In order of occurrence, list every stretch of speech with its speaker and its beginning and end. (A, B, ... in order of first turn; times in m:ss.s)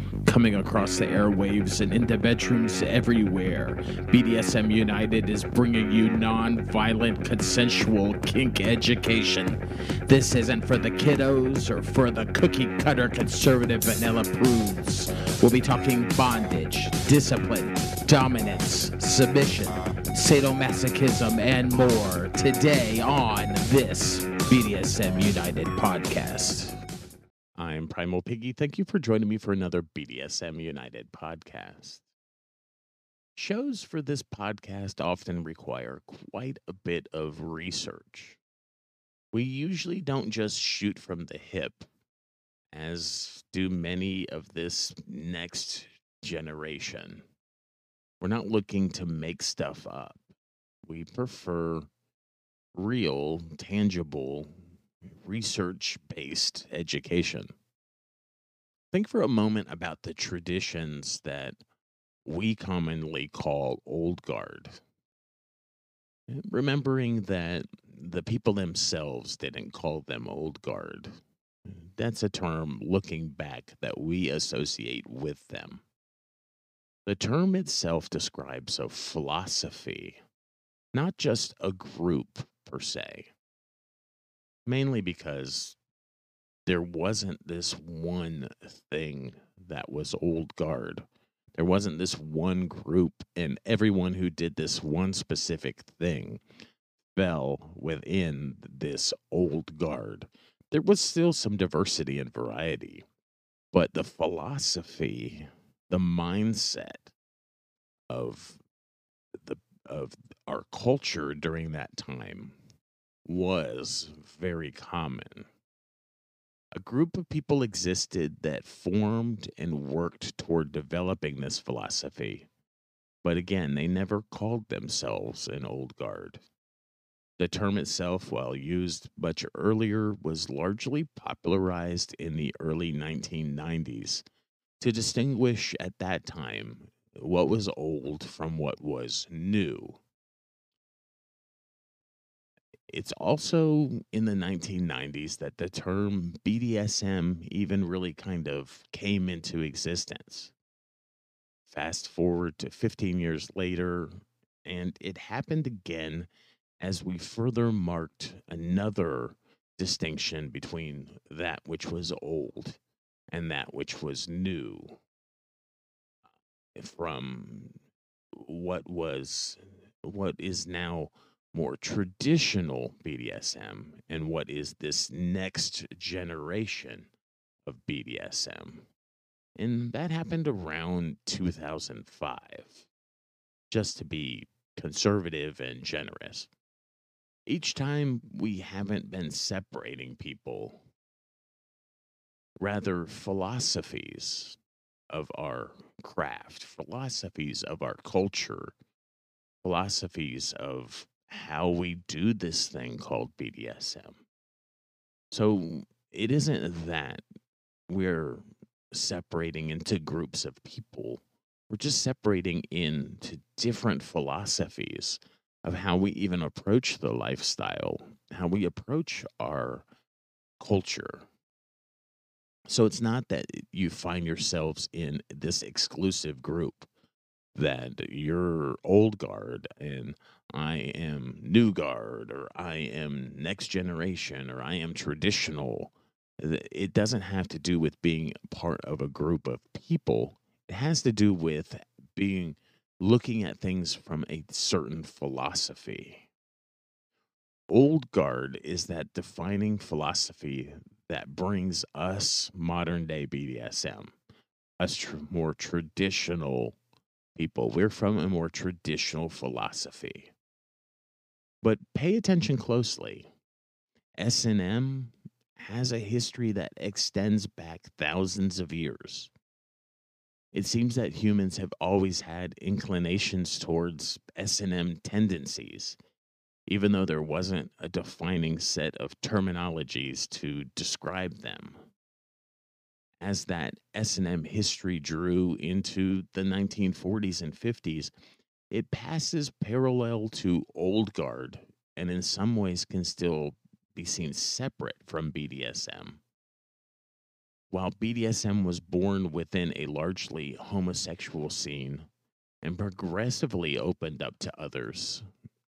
0:00.2-0:26.7 A
0:27.6-0:32.0 A
0:33.4-0:38.4 A
0:39.3-0:41.9 A
0:42.7-0:47.2 A
0:48.2-0:50.2 A
0:50.8-0:51.9 A
0:52.7-0:54.5 A
0:55.2-0:57.5 A
0:58.9-1:01.6 A
1:02.2-1:04.8 A
1:06.3-1:11.2 A
1:11.8-1:15.8 A
1:17.0-1:20.2 A
1:20.9-1:23.3 A
1:24.6-1:25.8 A
1:26.6-1:36.4 A
1:37.1-1:43.0 A
1:43.7-1:47.1 A
1:48.1-1:48.6 A
1:49.4-1:52.6 A
1:53.2-1:55.5 A
1:56.8-2:02.5 A
2:03.2-2:06.4 A
2:07.4-2:14.2 A
2:14.8-2:20.0 A
2:22.9-2:30.5 A
2:31.6-2:34.1 A
2:34.6-2:36.3 A
2:36.8-2:42.8 A
2:43.3-2:45.0 A
2:46.7-2:47.8 A
2:48.3-2:57.1 A
2:57.6-2:58.9 A
2:59.6-3:02.9 A
3:03.7-3:06.5 A
3:07.5-3:10.8 A
3:12.6-3:14.6 A
3:15.1-3:18.7 A
3:19.6-3:24.2 A
3:25.3-3:27.2 A
3:27.9-3:39.9 A
3:40.6-3:41.3 A
3:42.7-3:46.9 A
3:47.5-4:06.3 A
4:07.7-4:14.1 A
4:14.8-4:16.8 A
4:17.4-4:20.3 A
4:21.6-4:23.3 A
4:24.2-4:29.3 A
4:30.5-4:36.0 A
4:36.7-4:41.8 A
4:43.2-4:48.1 A
4:48.7-4:56.2 A
4:57.7-5:02.1 A
5:02.6-5:05.2 A